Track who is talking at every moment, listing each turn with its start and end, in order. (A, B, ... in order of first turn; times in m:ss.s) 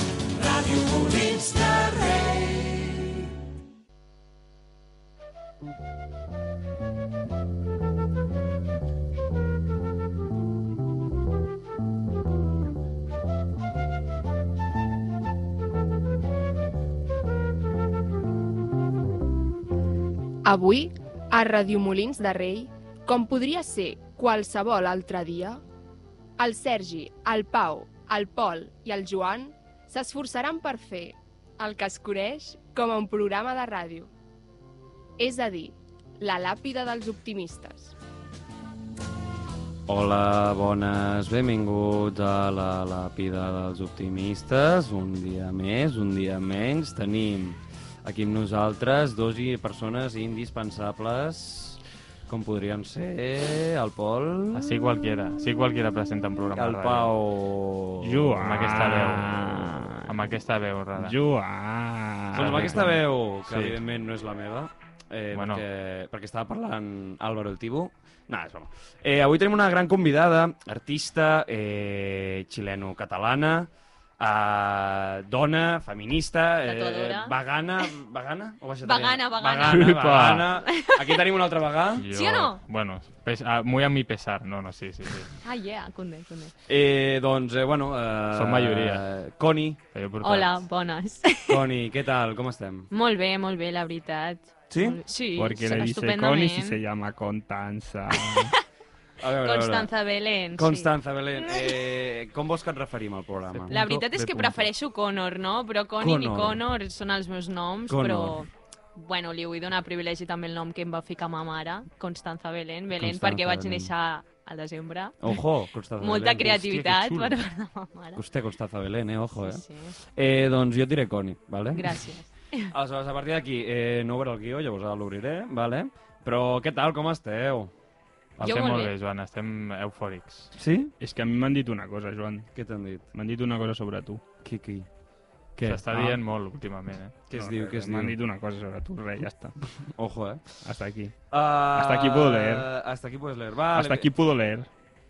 0:00.4-0:03.0 A
0:20.4-0:25.6 B
0:26.4-0:34.1 B
0:35.2-0:38.0 B
0:39.9-0:54.7 A
0:54.5-0:57.1 C
0:56.5-0:58.4 A
0:58.0-1:00.2 D
0:58.1-1:01.2 C
1:01.0-1:02.8 D
1:02.3-1:22.1 A
1:02.4-1:03.8 C
1:05.3-1:05.6 C
1:16.6-1:17.4 E
1:18.8-1:21.2 E
1:19.6-1:20.5 C
1:22.0-1:25.3 C
1:22.1-1:22.6 E
1:25.4-1:26.5 E
1:26.7-1:29.8 A
1:28.3-1:29.0 C
1:29.9-1:30.7 C
1:30.2-1:31.6 E
1:31.5-1:32.9 A
1:32.9-1:36.8 E
1:34.7-1:35.0 A
1:35.3-1:38.6 D
1:38.2-1:38.6 E
1:39.2-1:39.9 A
1:39.3-1:41.9 E
1:40.6-1:43.7 A
1:43.5-1:44.7 C
1:43.7-1:55.4 E
1:46.0-1:46.6 A
1:47.9-1:48.4 A
1:53.0-1:53.9 A
1:55.2-1:57.4 A
1:56.0-1:58.2 E
1:58.2-2:02.0 A
1:59.4-2:00.0 E
2:01.7-2:02.7 E
2:02.7-2:07.7 A
2:08.4-2:08.9 E
2:08.4-2:10.5 C
2:10.6-2:10.9 A
2:11.0-2:12.5 D
2:12.6-2:13.1 A
2:13.1-2:14.2 D
2:14.4-2:14.9 A
2:15.6-2:16.2 A
2:15.6-2:17.2 C
2:17.3-2:18.2 A
2:17.3-2:19.6 D
2:20.0-2:20.6 A
2:20.6-2:21.1 D
2:21.3-2:24.1 A
2:21.7-2:22.7 D
2:23.7-2:24.7 D